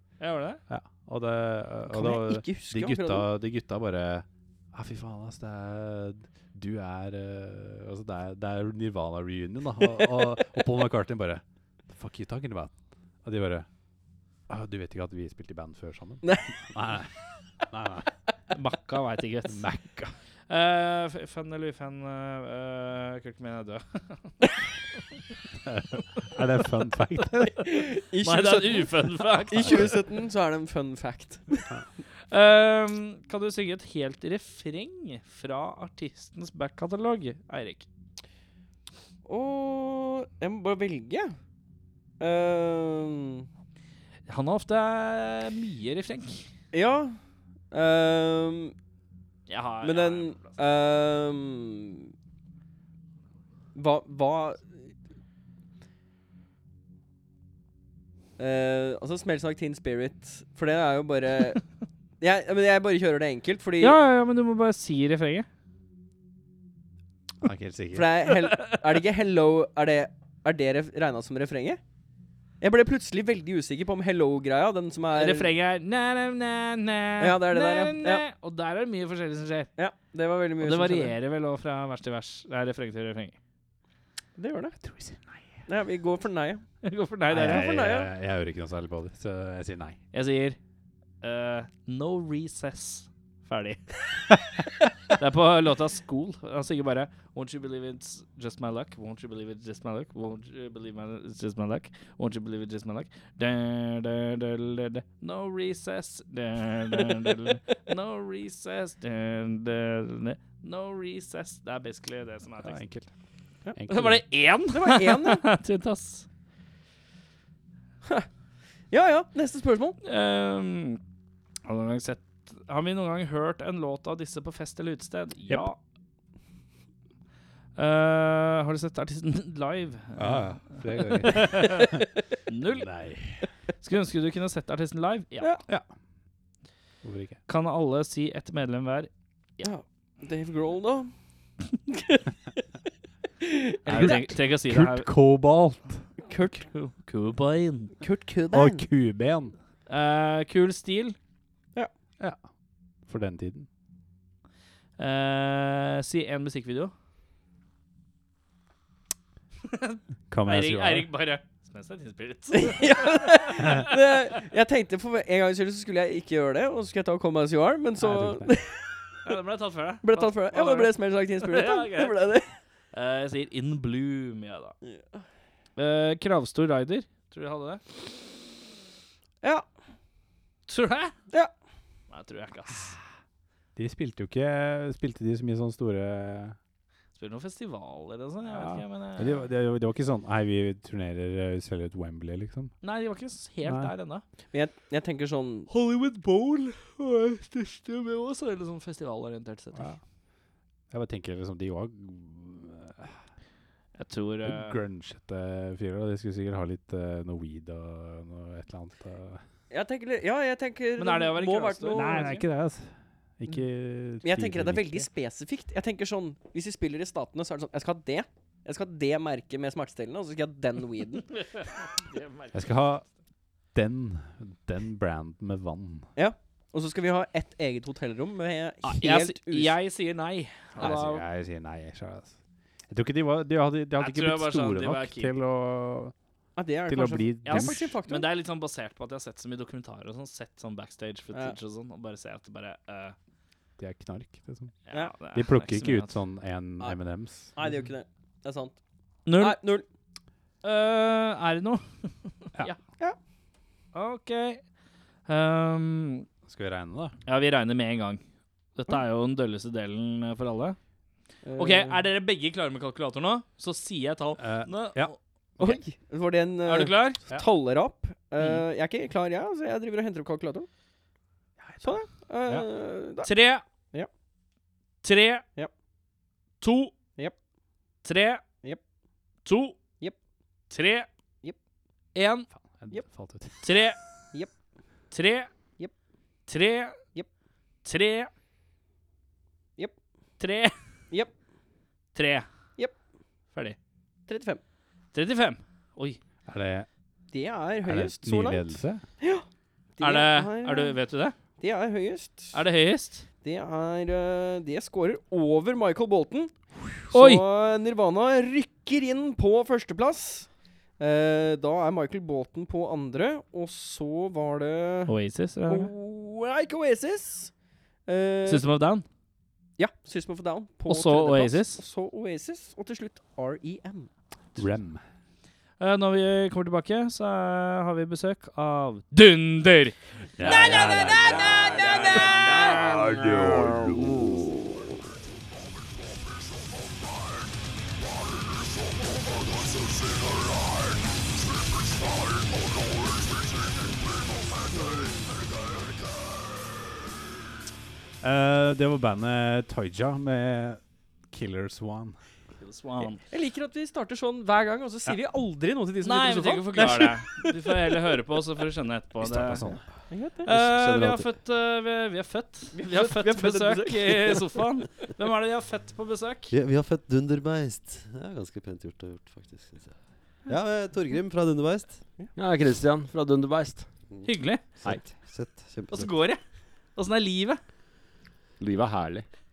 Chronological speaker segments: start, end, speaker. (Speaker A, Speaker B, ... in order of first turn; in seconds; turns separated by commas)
Speaker A: 0.2-0.6, Speaker B: 0.7-13.7, Speaker C: 1.9-3.3, Speaker B: 14.5-18.1, Speaker C: 16.2-16.5, Speaker A: 18.5-19.6, Speaker B: 19.5-20.1, Speaker A: 20.5-24.3, Speaker B: 25.6-27.7, Speaker C: 27.6-31.6, Speaker A: 28.2-29.9, Speaker B: 29.6-29.9, Speaker A: 32.3-37.9, Speaker C: 39.2-41.3, Speaker C: 42.2-43.5, Speaker A: 44.3-46.5, Speaker C: 46.7-47.2, Speaker C: 47.7-48.7, Speaker A: 49.5-50.6, Speaker C: 49.8-52.1, Speaker C: 53.7-54.8, Speaker C: 58.4-61.6, Speaker C: 62.2-64.0, Speaker A: 63.8-65.5, Speaker B: 67.4-68.2, Speaker C: 67.9-71.8, Speaker C: 72.6-75.5, Speaker A: 75.1-79.7, Speaker C: 77.2-78.2, Speaker C: 79.8-81.1, Speaker A: 80.6-83.3, Speaker C: 84.4-84.8, Speaker B: 84.8-85.5, Speaker C: 85.7-86.6, Speaker A: 86.8-87.6, Speaker B: 87.3-90.0, Speaker C: 87.4-88.1, Speaker A: 90.1-90.6, Speaker A: 91.2-94.2, Speaker A: 95.1-112.8, Speaker B: 112.6-113.1, Speaker B: 113.7-114.3, Speaker A: 113.9-116.2, Speaker C: 114.7-115.5, Speaker C: 118.9-120.0, Speaker A: 120.0-121.0, Speaker A: 121.7-125.8, Speaker A: 127.8-131.8, Speaker B: 130.2-132.1, Speaker A: 132.5-132.9, Speaker B: 132.7-133.4, Speaker A: 133.8-135.5, Speaker B: 137.0-137.4, Speaker A: 137.5-139.7, Speaker C: 139.6-141.1, Speaker C: 141.9-142.2, Speaker C: 143.4-144.3, Speaker A: 143.8-145.1, Speaker B: 143.9-146.1, Speaker C: 146.2-146.7, Speaker A: 146.6-147.9, Speaker C: 148.0-148.8, Speaker B: 148.5-149.5, Speaker A: 149.9-151.2, Speaker B: 153.1-153.7, Speaker A: 155.0-156.9, Speaker A: 159.7-163.9, Speaker B: 160.3-161.1, Speaker C: 162.5-169.0, Speaker B: 168.0-168.5, Speaker A: 169.2-172.1, Speaker C: 170.0-172.5, Speaker A: 172.9-174.7, Speaker C: 174.8-175.2, Speaker A: 175.8-177.8, Speaker A: 180.7-181.1, Speaker A: 182.1-183.0, Speaker B: 183.8-186.6, Speaker A: 187.1-189.4, Speaker B: 188.5-192.7, Speaker A: 192.8-194.2, Speaker B: 193.6-193.9, Speaker C: 194.5-195.7, Speaker A: 195.7-199.9, Speaker B: 199.7-200.0, Speaker B: 200.9-203.2, Speaker A: 203.9-204.8, Speaker B: 204.4-209.4, Speaker C: 209.7-212.3, Speaker A: 211.0-212.4, Speaker B: 211.9-215.1, Speaker C: 214.2-221.4, Speaker A: 221.4-222.6, Speaker B: 222.5-223.0, Speaker B: 223.7-226.1, Speaker C: 226.2-229.8, Speaker A: 228.8-231.2, Speaker B: 230.8-232.4, Speaker B: 232.9-236.1, Speaker A: 234.0-235.3, Speaker C: 236.6-238.3, Speaker B: 236.8-238.0, Speaker A: 237.4-243.2, Speaker B: 243.8-244.8, Speaker A: 244.9-246.1, Speaker B: 245.3-247.5, Speaker C: 247.5-248.8, Speaker A: 249.2-249.6, Speaker C: 249.3-249.8, Speaker A: 250.6-252.8, Speaker A: 253.9-254.6, Speaker A: 255.2-256.2, Speaker B: 256.5-257.1, Speaker A: 257.2-258.2, Speaker A: 258.8-260.8, Speaker C: 261.4-262.0, Speaker A: 261.6-265.8, Speaker B: 264.4-265.1, Speaker C: 265.6-270.7, Speaker A: 266.6-267.2, Speaker B: 271.6-272.7, Speaker C: 271.8-273.3, Speaker A: 273.2-273.6, Speaker A: 275.0-275.4, Speaker A: 276.6-276.9, Speaker A: 278.0-278.4, Speaker A: 279.4-279.8, Speaker A: 280.7-281.1, Speaker A: 282.1-282.5, Speaker B: 282.5-283.6, Speaker A: 283.6-284.0, Speaker A: 285.1-285.5, Speaker A: 286.5-287.0, Speaker A: 287.8-288.3, Speaker A: 290.4-290.7, Speaker A: 292.1-292.5, Speaker C: 294.3-294.6, Speaker A: 295.1-296.2, Speaker B: 296.4-296.9, Speaker C: 297.3-299.4, Speaker B: 297.8-299.0, Speaker C: 300.0-300.9, Speaker A: 300.0-301.3, Speaker C: 301.6-302.5, Speaker A: 302.5-303.2, Speaker C: 303.4-315.1, Speaker A: 307.1-307.4, Speaker A: 315.1-315.9, Speaker C: 315.7-317.5, Speaker C: 318.1-318.7, Speaker A: 318.4-319.0, Speaker C: 319.8-324.1, Speaker A: 320.9-321.8, Speaker B: 324.6-325.0, Speaker A: 325.8-332.7, Speaker B: 330.4-331.3, Speaker C: 330.4-332.8, Speaker D: 331.6-334.5, Speaker B: 348.2-352.2, Speaker A: 352.6-353.2, Speaker C: 353.3-357.5, Speaker A: 356.0-359.6, Speaker B: 359.2-359.9, Speaker C: 360.1-360.5, Speaker A: 360.4-366.5, Speaker E: 360.5-361.3, Speaker C: 362.7-364.7, Speaker E: 366.5-369.9, Speaker E: 370.5-372.0, Speaker D: 372.3-373.9, Speaker E: 374.1-376.1, Speaker A: 374.2-374.6, Speaker A: 375.9-376.4, Speaker A: 376.9-377.6, Speaker D: 378.6-379.3